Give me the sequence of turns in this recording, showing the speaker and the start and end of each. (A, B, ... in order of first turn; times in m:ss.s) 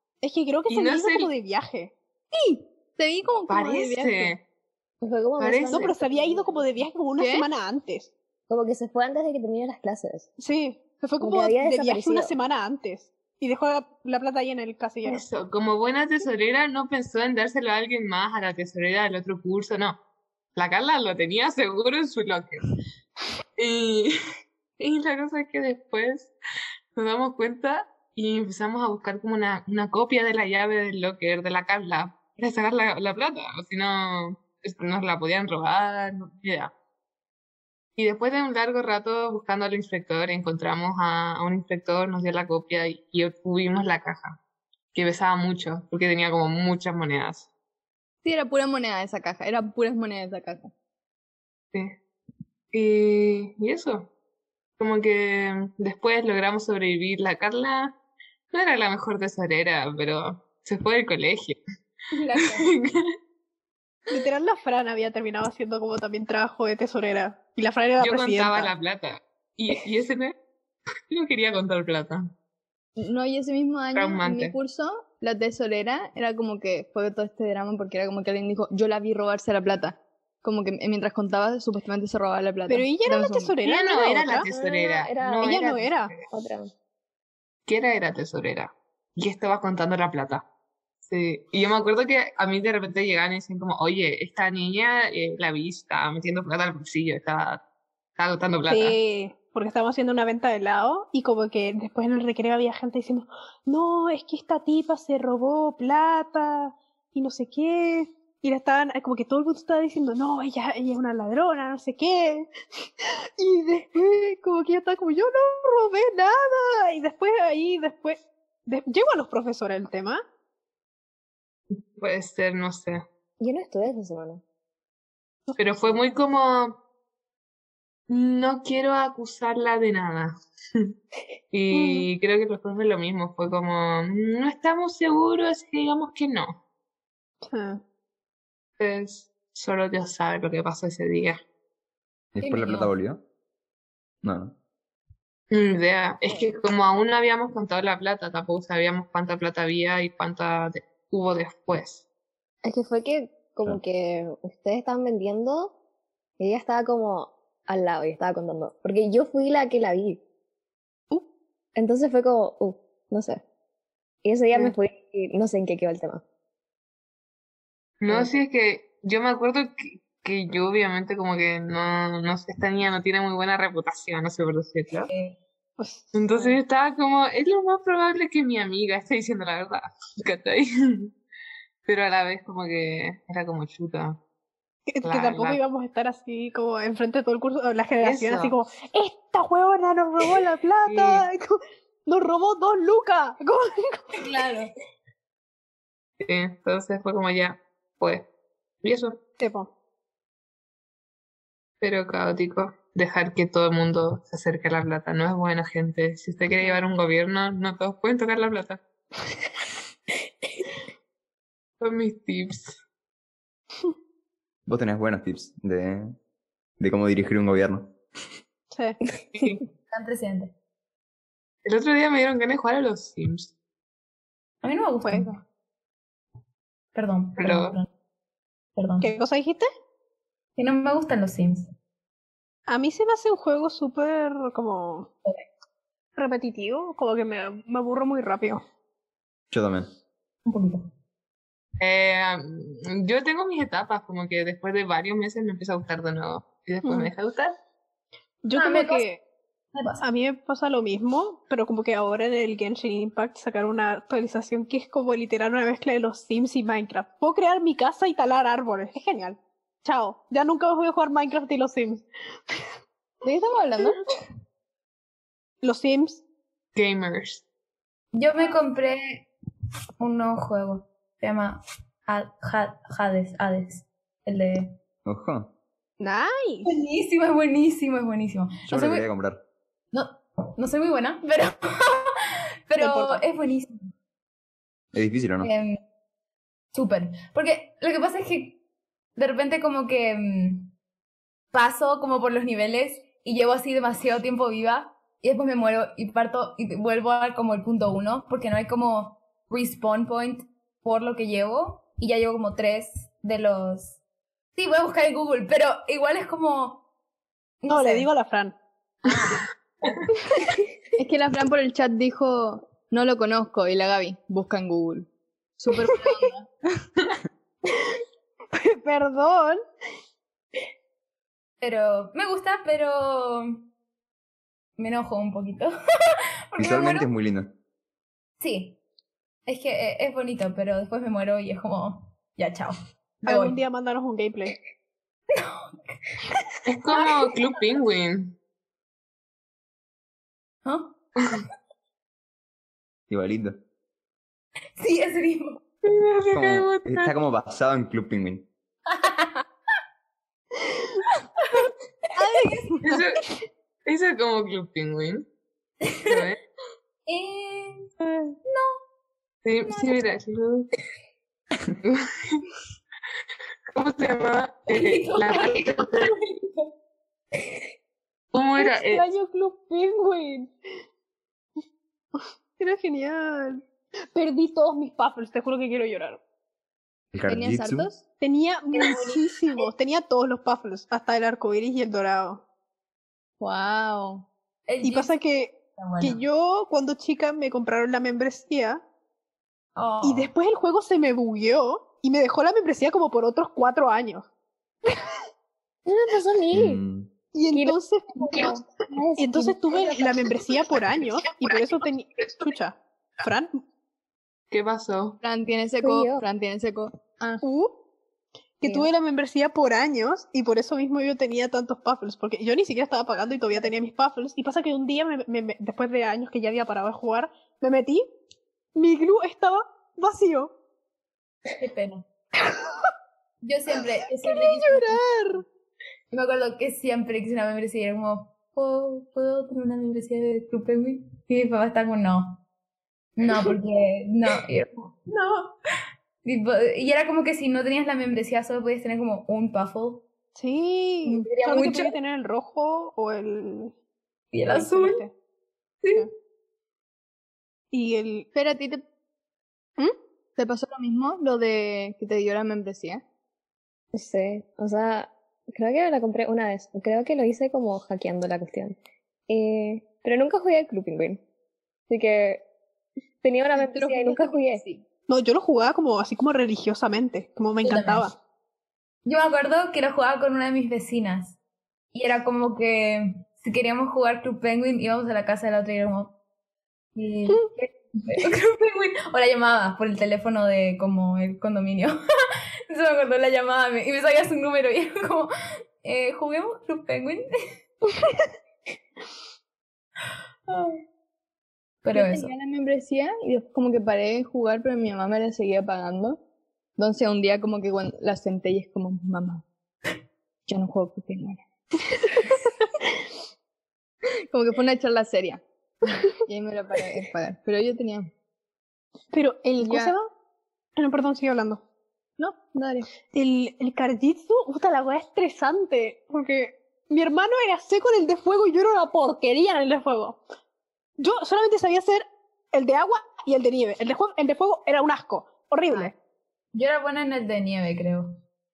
0:00.2-0:01.9 A
0:00.7-0:01.3 B
0:02.3-0:04.3 C
0:03.5-0:04.4 B
0:05.0-0:06.8 D
0:05.4-0:05.9 B
0:05.7-0:08.1 A
0:07.2-0:07.5 C
0:08.5-0:10.3 D
0:10.4-0:15.2 A
0:11.2-0:12.3 D
0:15.0-0:20.0 B
0:20.6-0:22.7 B
0:23.6-0:24.1 B
0:24.8-0:26.3 B
0:26.9-0:36.7 B
0:38.0-0:44.4 B
0:44.9-0:47.5 B
0:48.2-0:50.7 C
0:52.7-0:54.1 B
0:54.8-0:57.9 B
0:58.5-1:01.6 B
1:02.3-1:02.6 E
1:02.3-1:02.6 C
1:02.5-1:03.0 B
1:04.1-1:08.7 A
1:08.0-1:10.3 B
1:11.1-1:12.3 B
1:13.0-1:23.6 C
1:13.9-1:14.5 B
1:22.7-1:24.5 A
1:23.6-1:26.2 B
1:24.4-1:25.7 D
1:25.4-1:26.1 A
1:26.2-1:26.7 D
1:27.6-1:30.4 B
1:31.0-1:37.6 B
1:38.2-1:39.0 B
1:38.7-1:52.5 A
1:53.0-2:00.2 A
2:01.7-2:03.0 B
2:03.4-2:04.4 D
2:05.5-2:06.0 A
2:05.6-2:06.7 B
2:08.1-2:10.9 B
2:11.5-2:16.6 B
2:11.7-2:12.1 A
2:17.4-2:17.8 A
2:18.8-2:21.4 B
2:22.3-2:23.2 F
2:22.4-2:22.9 E
2:24.2-2:24.5 F
2:25.5-2:32.0 B
2:32.6-2:35.7 D
2:36.4-2:40.2 D
2:41.8-2:43.4 D
2:44.2-2:46.2 D
2:48.0-2:55.1 B
2:55.1-2:55.4 E
2:55.8-2:56.6 A
2:56.1-3:01.1 B
3:01.8-3:04.2 B
3:04.9-3:14.0 A
3:05.0-3:05.6 B
3:08.0-3:08.5 B
3:10.9-3:11.2 B
3:14.1-3:14.7 E
3:16.2-3:18.2 B
3:18.8-3:19.2 B
3:19.4-3:19.7 A
3:21.8-3:28.8 B
3:31.8-3:32.8 B
3:34.6-3:36.1 F
3:36.8-3:37.9 F
3:38.7-3:39.0 A
3:39.3-3:39.6 B
3:39.9-3:40.5 E
3:41.6-3:43.5 B
3:44.6-3:45.4 E
3:45.0-3:45.3 A
3:46.9-3:47.9 E
3:47.4-3:47.8 B
3:48.8-3:49.1 E
3:49.0-3:49.6 A
3:50.6-3:51.7 E
3:52.7-3:55.1 A
3:56.2-3:58.6 A
3:59.5-3:59.9 F
4:00.4-4:00.9 E
4:01.8-4:07.5 B
4:08.4-4:09.2 A
4:08.5-4:09.0 E
4:09.7-4:10.0 E
4:10.0-4:22.6 A
4:23.2-4:24.0 C
4:25.6-4:26.2 A
4:26.7-4:27.4 B
4:28.1-4:29.3 E
4:30.0-4:34.7 E
4:35.0-4:35.5 F
4:36.0-4:36.7 A
4:36.6-4:39.1 E
4:38.7-4:39.4 F
4:39.9-4:42.1 E
4:42.7-4:43.7 E
4:42.8-4:43.2 A
4:44.9-4:45.5 F
4:45.4-4:45.8 E
4:46.7-4:48.6 E
4:49.2-4:50.7 E
4:51.5-5:04.0 E
5:04.6-5:06.8 E
5:07.6-5:08.1 E
5:07.7-5:08.5 A
5:09.1-5:09.4 E
5:11.0-5:15.1 C
5:15.6-5:16.5 C
5:15.9-5:16.2 A
5:17.7-5:18.0 A
5:18.5-5:19.6 A
5:21.6-5:23.6 E
5:24.8-5:25.7 E
5:26.5-5:27.1 E
5:26.6-5:27.5 F
5:28.4-5:28.8 E
5:29.4-5:33.6 E
5:33.2-5:34.6 A
5:35.3-5:36.0 E
5:36.6-5:38.3 B
5:36.9-5:37.3 E
5:40.6-5:41.0 E
5:43.1-5:43.6 F
5:44.8-5:45.6 E
5:45.8-5:47.1 B
5:46.3-5:48.5 F
5:48.9-5:49.4 E
5:51.4-5:51.7 E
5:52.2-5:53.3 A
5:52.2-5:52.7 E
5:52.8-5:53.2 B
5:53.8-5:55.2 B
5:55.9-5:56.2 E
5:56.0-5:56.4 B
5:57.0-5:57.9 E
5:58.5-5:58.8 E
5:59.4-6:00.7 B
6:01.8-6:02.4 B
6:03.7-6:06.1 B
6:04.7-6:06.7 E
6:08.3-6:09.0 B
6:08.6-6:10.5 A
6:12.2-6:13.6 A
6:14.1-6:16.2 A
6:17.1-6:17.9 F
6:17.3-6:18.0 C
6:18.2-6:22.4 A
6:18.7-6:19.2 C
6:23.4-6:24.2 C
6:24.7-6:26.2 E
6:24.8-6:28.8 A
6:29.8-6:30.3 E
6:30.0-6:34.3 A
6:35.8-6:36.8 D
6:36.5-6:37.1 F
6:37.3-6:38.5 A
6:37.5-6:40.1 D
6:39.2-6:43.5 A
6:44.5-6:45.2 B
6:45.2-6:47.4 C
6:45.8-6:46.2 D
6:47.4-6:47.8 A
6:48.6-6:58.1 A
6:58.7-7:00.5 A
7:01.6-7:02.0 E
7:02.5-7:02.9 A
7:03.4-7:05.0 E
7:04.2-7:05.4 A
7:06.1-7:12.4 E
7:13.2-7:15.5 E
7:16.2-7:20.0 E
7:20.3-7:23.7 A
7:21.0-7:21.9 E
7:24.3-7:25.0 E
7:24.4-7:25.1 A
7:27.7-7:28.3 A
7:28.3-7:28.8 C
7:30.4-7:33.0 C
7:33.9-7:41.2 D
7:41.9-7:42.4 D
7:43.2-7:44.6 D
7:43.5-7:44.8 C
7:45.1-7:48.1 A
7:47.6-7:48.0 E
7:49.0-7:51.4 E
7:51.9-7:56.1 E
7:56.9-8:02.0 E
8:02.7-8:05.3 E
8:05.8-8:07.3 E
8:10.5-8:10.7 E
8:11.8-8:12.3 E
8:11.9-8:16.2 C
8:16.8-8:19.4 C
8:20.5-8:21.4 C
8:24.3-8:25.4 C
8:26.2-8:28.1 C
8:29.1-8:30.1 A
8:29.6-8:29.9 C
8:30.8-8:31.6 A
8:32.2-8:32.9 C
8:33.1-8:40.2 A
8:41.0-8:45.9 A
8:46.5-8:48.1 E